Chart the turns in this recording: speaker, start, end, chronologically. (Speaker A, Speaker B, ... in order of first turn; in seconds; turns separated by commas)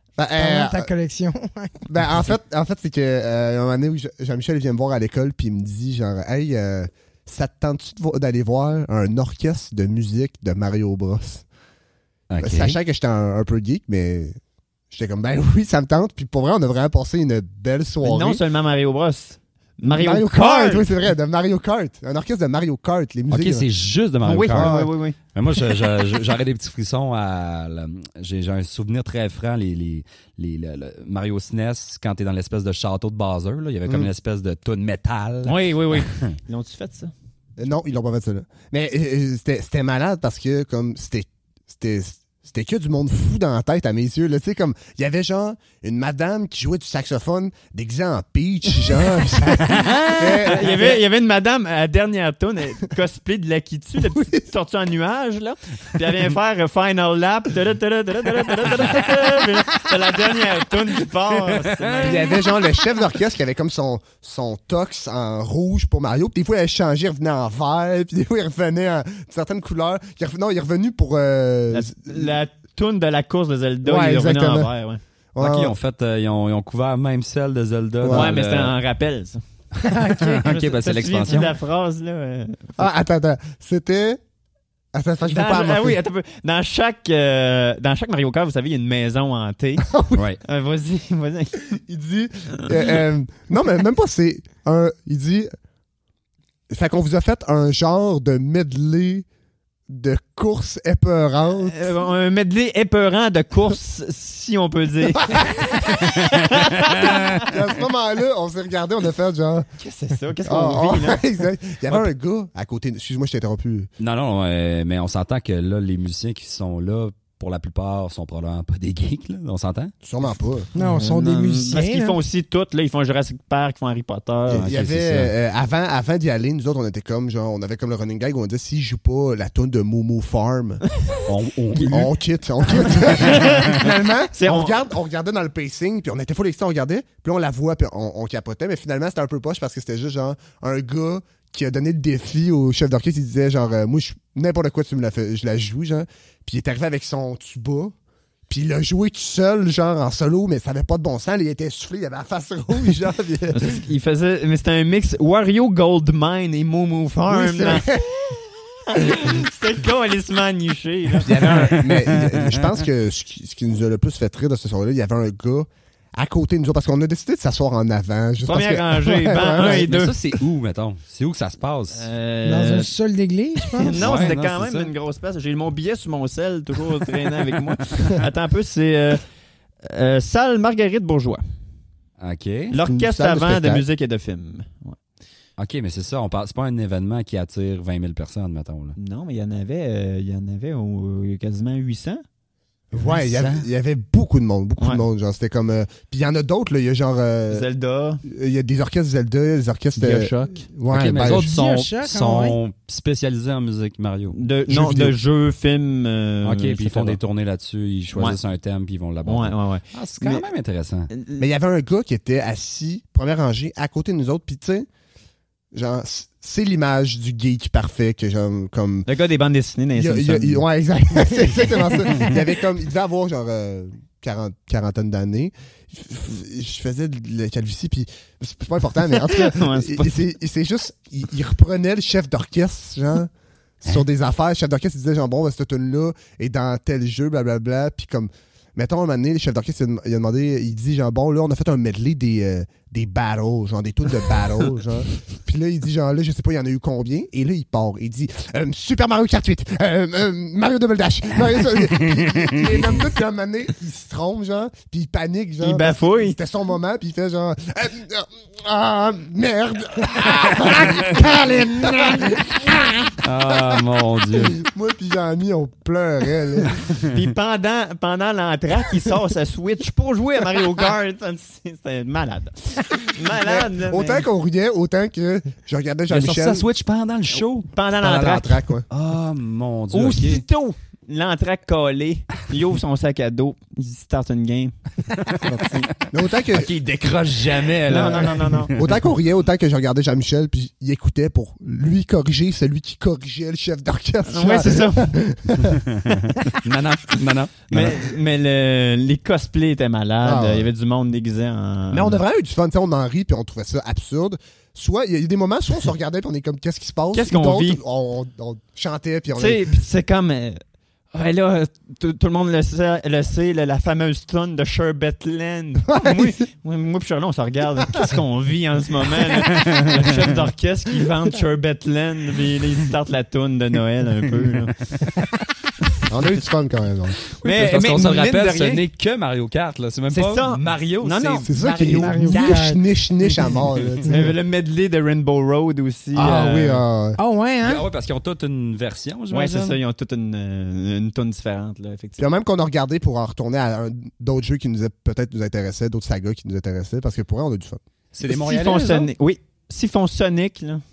Speaker A: 0.2-0.9, Speaker B: 0.4-1.9, Speaker A: 1.9-11.4, Speaker C: 12.3-12.8, Speaker A: 12.4-14.4, Speaker A: 14.9-18.4, Speaker D: 18.0-21.0, Speaker A: 19.8-23.6, Speaker C: 23.3-36.3, Speaker D: 24.2-25.1, Speaker A: 24.5-24.9, Speaker D: 35.4-37.1, Speaker A: 37.6-51.0, Speaker D: 49.6-62.4, Speaker C: 49.6-50.0, Speaker C: 61.7-62.2, Speaker A: 62.0-72.3, Speaker D: 71.7-75.0, Speaker A: 73.8-74.7, Speaker A: 75.3-75.7, Speaker C: 75.4-78.7, Speaker A: 78.0-78.3, Speaker D: 78.1-79.4, Speaker B: 79.8-80.5, Speaker C: 79.9-81.5, Speaker D: 80.4-82.8, Speaker A: 82.8-84.2, Speaker A: 84.9-86.0, Speaker D: 85.3-91.8, Speaker A: 89.9-90.2, Speaker C: 90.1-90.4, Speaker A: 91.9-95.5, Speaker A: 96.7-99.2, Speaker A: 99.9-101.9, Speaker D: 101.6-107.5, Speaker C: 106.0-107.5, Speaker A: 107.0-109.7, Speaker D: 109.8-111.2, Speaker A: 110.4-113.9, Speaker C: 114.0-119.9, Speaker A: 120.0-120.7, Speaker B: 120.8-122.2, Speaker D: 120.8-124.7, Speaker A: 124.5-130.8, Speaker C: 124.5-125.3, Speaker D: 131.1-131.9, Speaker C: 131.2-132.1, Speaker A: 131.8-147.9, Speaker D: 132.8-134.8, Speaker C: 132.9-133.8, Speaker A: 148.5-153.8, Speaker D: 153.5-161.8, Speaker A: 157.3-158.1, Speaker A: 161.2-169.8, Speaker C: 161.5-162.5, Speaker D: 168.4-170.2, Speaker C: 169.6-172.0, Speaker D: 171.9-172.9, Speaker B: 172.4-174.2, Speaker D: 173.7-179.2, Speaker C: 173.9-174.9, Speaker D: 179.8-181.4, Speaker C: 182.2-182.8, Speaker D: 182.7-185.0, Speaker A: 182.9-183.8, Speaker C: 185.6-188.9, Speaker D: 188.9-192.2, Speaker A: 192.9-197.7, Speaker D: 193.0-193.6, Speaker D: 197.5-198.2, Speaker A: 198.2-201.5, Speaker D: 200.0-200.7, Speaker C: 200.9-204.3, Speaker B: 201.3-202.6, Speaker D: 204.3-207.2, Speaker A: 204.7-205.1, Speaker C: 206.4-211.1, Speaker D: 208.1-208.4, Speaker D: 209.2-210.4, Speaker D: 211.1-211.4, Speaker A: 211.4-214.9, Speaker A: 215.7-219.1, Speaker D: 219.1-220.6, Speaker A: 219.9-233.3, Speaker D: 229.2-230.1, Speaker A: 233.8-266.8, Speaker C: 252.0-252.8, Speaker D: 255.6-256.4, Speaker C: 260.7-261.1, Speaker C: 263.2-264.6, Speaker D: 267.0-274.2, Speaker A: 273.3-276.6, Speaker C: 276.1-280.4, Speaker D: 277.3-278.6, Speaker A: 278.0-278.8, Speaker D: 279.9-285.9, Speaker C: 285.2-285.9, Speaker A: 286.1-286.7, Speaker C: 286.4-289.0, Speaker D: 287.8-288.7, Speaker A: 288.8-296.2, Speaker D: 294.3-295.2, Speaker C: 295.6-298.0, Speaker D: 297.7-302.2, Speaker A: 300.2-300.7, Speaker A: 301.9-309.6, Speaker D: 307.1-307.8, Speaker D: 309.3-310.6, Speaker D: 311.1-324.8, Speaker A: 315.9-316.4, Speaker C: 319.3-320.4, Speaker A: 326.1-327.2, Speaker C: 327.4-331.5, Speaker D: 327.4-328.8, Speaker D: 330.1-332.7, Speaker A: 331.4-334.4, Speaker B: 331.6-332.8, Speaker D: 334.0-336.8, Speaker A: 336.1-337.2, Speaker C: 336.2-336.6, Speaker B: 337.2-337.9, Speaker C: 337.6-339.8, Speaker D: 339.3-342.2, Speaker A: 342.2-347.8, Speaker C: 348.1-349.1, Speaker D: 348.2-350.8